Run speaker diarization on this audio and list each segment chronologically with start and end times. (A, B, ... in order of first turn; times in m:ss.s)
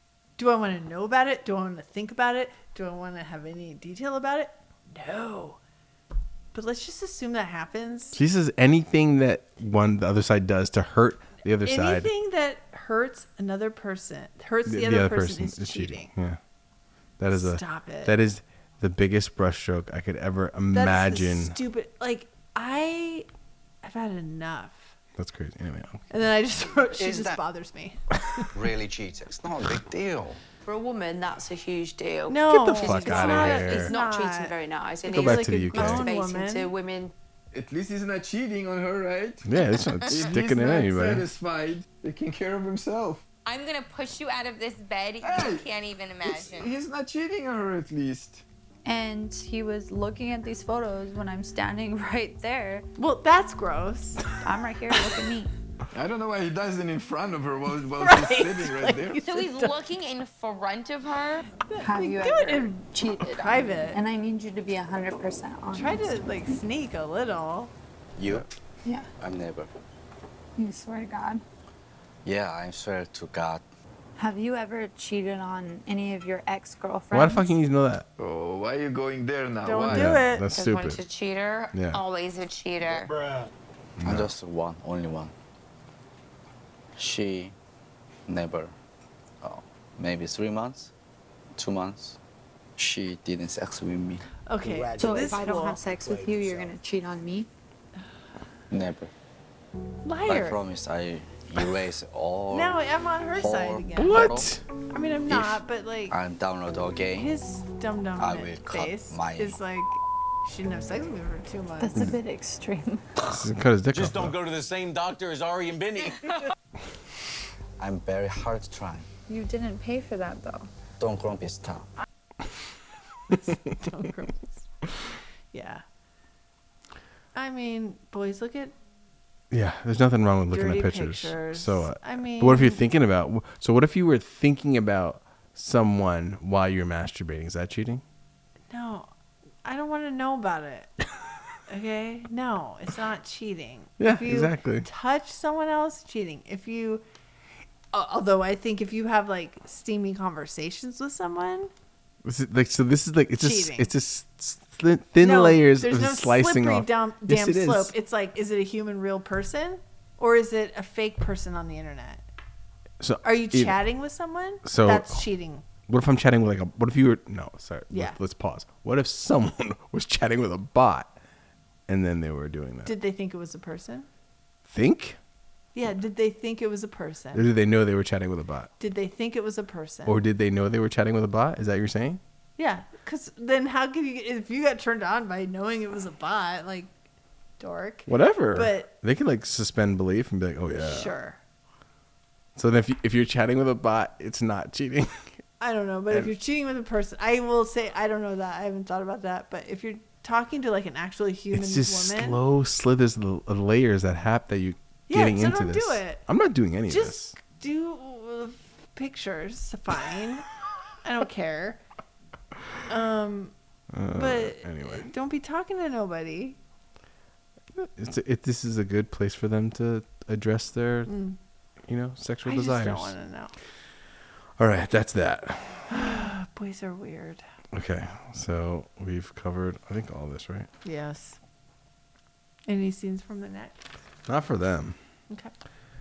0:00.4-0:05.6 A
0:06.5-0:08.2 A
0:08.1-0:12.1 B
0:11.6-0:16.1 A
0:14.6-0:16.4 B
0:17.2-0:21.6 B
0:17.3-0:18.2 A
0:20.7-0:23.3 A
0:23.8-0:24.9 A
0:25.2-0:26.0 B
0:26.1-0:28.4 A
0:26.9-0:27.4 C
0:28.5-0:30.4 C
0:30.6-0:37.1 D
0:32.3-0:34.5 A
0:32.5-0:33.9 B
0:35.0-0:36.0 B
0:35.1-0:36.7 A
0:37.5-0:39.4 E
0:39.4-0:41.3 B
0:40.1-0:43.2 E
0:43.4-0:46.7 F
0:45.2-0:45.7 E
0:46.2-0:48.4 E
0:48.8-0:52.8 G
0:53.0-0:54.2 A
0:54.4-0:55.5 G
0:55.9-0:59.3 E
0:58.0-0:59.7 A
0:59.2-1:01.5 F
1:01.6-1:04.0 A
1:01.8-1:06.4 G
1:05.7-1:07.7 A
1:08.2-1:08.5 H
1:09.2-1:09.7 H
1:10.6-1:11.4 G
1:12.2-1:13.6 H
1:14.2-1:17.5 G
1:17.1-1:18.0 B
1:18.2-1:20.2 E
1:19.6-1:20.4 A
1:19.9-1:21.0 B
1:20.5-1:23.1 F
1:21.7-1:22.0 B
1:24.0-1:24.3 B
1:24.0-1:25.3 H
1:27.0-1:27.6 H
1:28.3-1:28.7 H
1:29.4-1:30.9 H
1:31.6-1:32.2 H
1:32.8-1:34.2 H
1:34.4-1:35.8 A
1:34.9-1:37.5 G
1:38.7-1:39.1 H
1:40.0-1:40.6 A
1:40.2-1:42.8 H
1:42.5-1:46.2 A
1:43.3-1:44.5 H
1:44.0-1:44.6 B
1:45.3-1:47.3 H
1:47.2-1:52.1 A
1:48.2-1:49.6 H
1:51.8-1:53.2 G
1:53.3-1:54.3 B
1:53.9-1:56.2 I
1:57.8-1:59.1 H
1:59.3-2:00.7 G
2:01.0-2:01.9 H
2:03.3-2:04.7 A
2:05.5-2:05.8 A
2:07.3-2:08.7 A
2:09.5-2:18.0 B
2:10.5-2:12.8 A
2:18.7-2:19.1 A
2:19.6-2:20.9 A
2:21.7-2:27.0 A
2:24.0-2:24.9 B
2:27.9-2:31.7 A
2:32.2-2:37.9 B
2:33.4-2:33.9 A
2:35.2-2:42.2 A
2:43.0-2:43.8 B
2:43.2-2:45.6 A
2:44.6-2:45.2 B
2:45.9-2:51.1 B
2:47.9-2:48.2 A
2:51.9-2:52.9 B
2:52.8-2:54.1 A
2:54.6-2:55.2 B
2:55.7-2:57.4 A
2:57.3-2:58.7 B
2:58.8-3:00.2 A
3:00.0-3:02.2 B
3:02.6-3:07.0 A
3:07.6-3:08.9 A
3:08.1-3:11.1 B
3:10.8-3:11.4 A
3:12.5-3:15.4 B
3:15.6-3:22.4 A
3:21.5-3:27.3 B
3:25.1-3:26.2 A
3:26.9-3:30.4 A
3:31.0-3:31.8 A
3:32.9-3:33.5 A
3:33.9-3:35.1 B
3:34.1-3:36.6 A
3:37.7-3:41.1 B
3:41.1-3:41.4 A
3:41.9-3:43.1 B
3:42.4-3:43.5 A
3:44.6-3:46.3 B
3:45.9-3:47.4 A
3:47.7-3:50.7 B
3:50.8-3:51.4 A
3:52.7-3:53.8 A
3:54.2-3:55.0 B